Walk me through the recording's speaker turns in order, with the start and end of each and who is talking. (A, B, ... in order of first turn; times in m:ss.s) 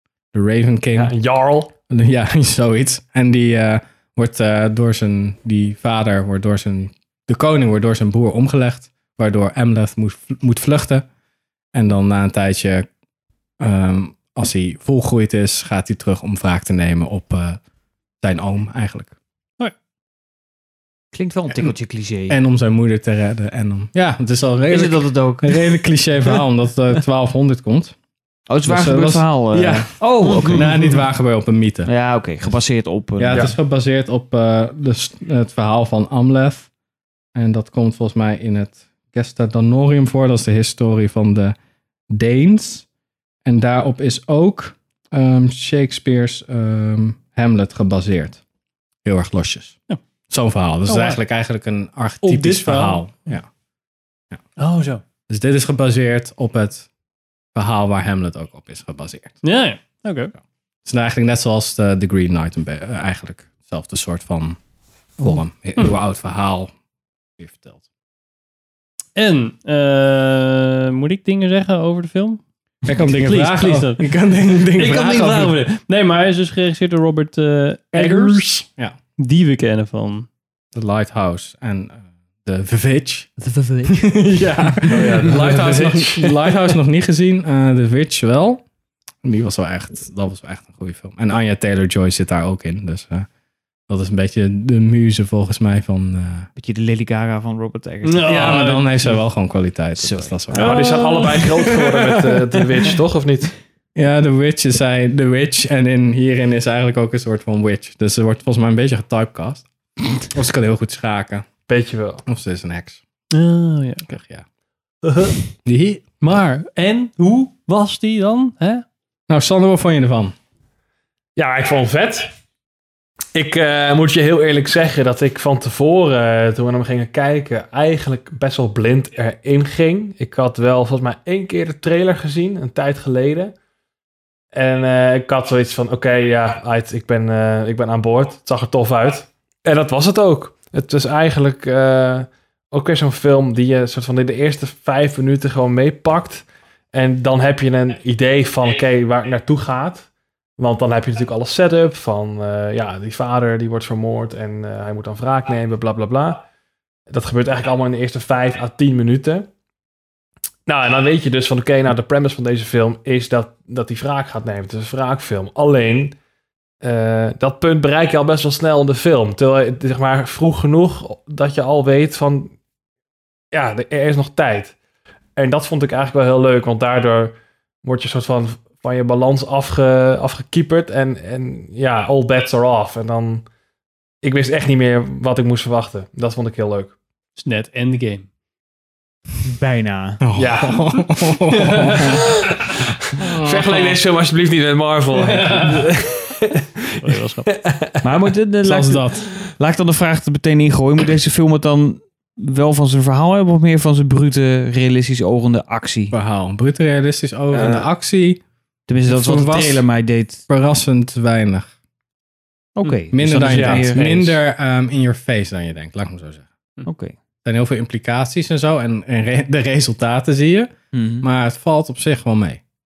0:00.3-0:01.1 A
0:00.9-0:01.7 B
0:01.9-0:11.0 A
0:11.7-0:12.9 A
0:13.6-0:17.6 A
0:18.2-0:19.1 A
0:21.1-0:22.4 C
0:22.3-0:27.9 A
0:24.7-0:25.6 C
0:28.5-0:30.9 C
0:28.6-0:31.9 A
0:30.2-0:30.7 D
0:31.8-0:33.5 C
0:33.2-0:36.7 A
0:37.3-0:41.6 A
0:42.1-0:42.8 A
0:43.4-0:48.4 A
0:49.0-0:49.8 A
0:50.3-0:53.5 A
0:50.9-0:51.2 D
0:52.2-0:53.2 D
0:54.6-0:55.0 D
0:55.3-0:56.9 A
0:57.5-0:59.4 A
0:59.4-1:00.3 D
1:00.8-1:04.6 A
1:05.2-1:06.7 A
1:07.4-1:07.8 A
1:09.2-1:12.4 D
1:12.8-1:15.5 A
1:13.2-1:14.1 D
1:14.7-1:18.5 D
1:18.0-1:19.0 A
1:19.2-1:20.3 D
1:20.7-1:23.3 A
1:23.4-1:24.2 C
1:23.8-1:28.6 A
1:24.9-1:26.4 B
1:29.2-1:33.3 A
1:33.9-1:36.5 A
1:36.6-1:38.6 C
1:38.0-1:39.1 D
1:38.2-1:41.9 A
1:40.0-1:41.0 C
1:40.5-1:43.5 B
1:40.6-1:41.4 D
1:43.9-1:51.4 A
1:51.7-1:52.2 B
1:52.2-1:53.0 A
1:53.3-1:54.1 D
1:54.1-1:54.4 A
1:55.6-1:56.1 A
1:56.2-1:58.8 D
1:59.3-2:00.3 A
2:01.4-2:02.3 B
2:03.3-2:13.5 B
2:14.5-2:36.5 B
2:37.1-2:39.5 B
2:40.7-2:46.2 B
2:46.8-2:52.5 B
2:53.5-2:54.7 B
2:55.4-3:03.4 B
3:04.2-3:06.9 B
3:07.4-3:08.3 D
3:09.5-3:10.2 C
3:10.2-3:12.2 A
3:10.3-3:10.8 B
3:11.7-3:12.0 D
3:13.2-3:13.9 A
3:13.4-3:16.5 B
3:15.2-3:15.9 D
3:17.0-3:17.6 D
3:17.5-3:18.0 B
3:18.0-3:26.1 C
3:18.6-3:19.3 A
3:26.1-3:28.4 A
3:27.5-3:27.8 B
3:28.9-3:30.4 C
3:29.0-3:29.9 A
3:30.5-3:31.7 A
3:32.8-3:34.3 C
3:33.1-3:36.4 A
3:33.4-3:34.4 B
3:36.8-3:37.2 C
3:37.4-3:42.6 A
3:40.9-3:41.3 C